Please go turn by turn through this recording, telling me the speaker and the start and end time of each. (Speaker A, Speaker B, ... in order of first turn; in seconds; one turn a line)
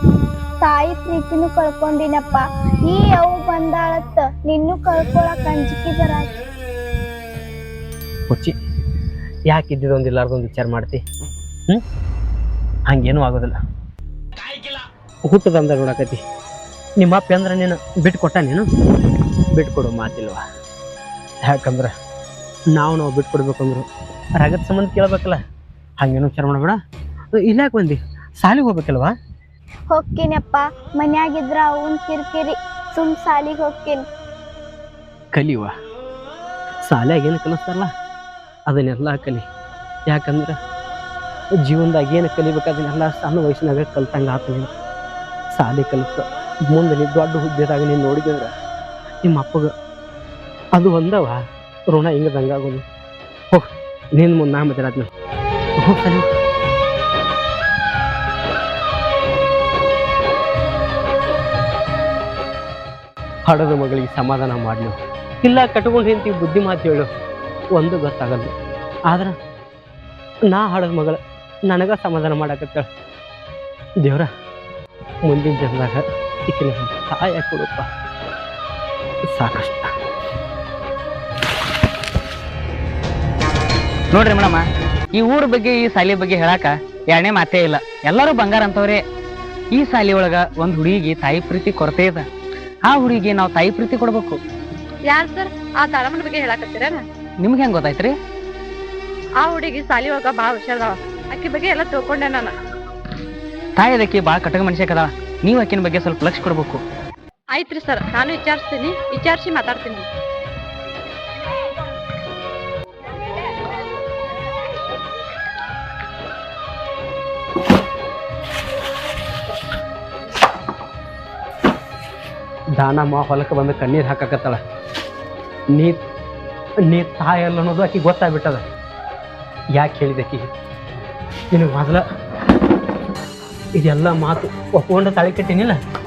Speaker A: 0.6-6.4
Speaker B: 8.3-8.6
Speaker B: 9.5-11.0
Speaker B: 12.9-13.6
Speaker B: 15.3-16.2
Speaker B: 17.0-18.7
Speaker B: 19.5-20.4
Speaker B: 21.4-21.9
Speaker B: 22.7-23.9
Speaker B: 24.4-25.4
Speaker B: 26.0-26.8
Speaker B: 27.4-29.2
Speaker A: 29.9-34.0
Speaker B: 35.3-35.7
Speaker B: 36.9-37.9
Speaker B: 38.7-39.5
Speaker B: 40.1-40.6
Speaker B: 41.6-44.7
Speaker B: 45.5-48.5
Speaker B: 49.2-49.7
Speaker B: 50.8-52.9
Speaker B: 53.5-55.1
Speaker B: 55.8-56.3
Speaker B: 63.5-67.1
Speaker B: 67.8-68.5
Speaker B: 69.1-69.4
Speaker B: 70.5-72.9
Speaker B: 74.0-74.3
Speaker B: 75.3-77.9
Speaker B: 79.3-79.9
Speaker C: 84.1-84.6
Speaker C: 85.1-89.0
Speaker C: 89.7-92.2
Speaker C: 92.8-94.4
Speaker D: 95.1-97.0
Speaker C: 97.4-98.1
Speaker D: 99.4-102.5
Speaker C: 103.8-106.8
Speaker D: 107.5-110.1
Speaker B: 122.8-124.6
Speaker B: 125.7-126.0
Speaker B: 126.8-128.7
Speaker B: 129.7-130.5
Speaker B: 131.5-132.0
Speaker B: 133.8-135.8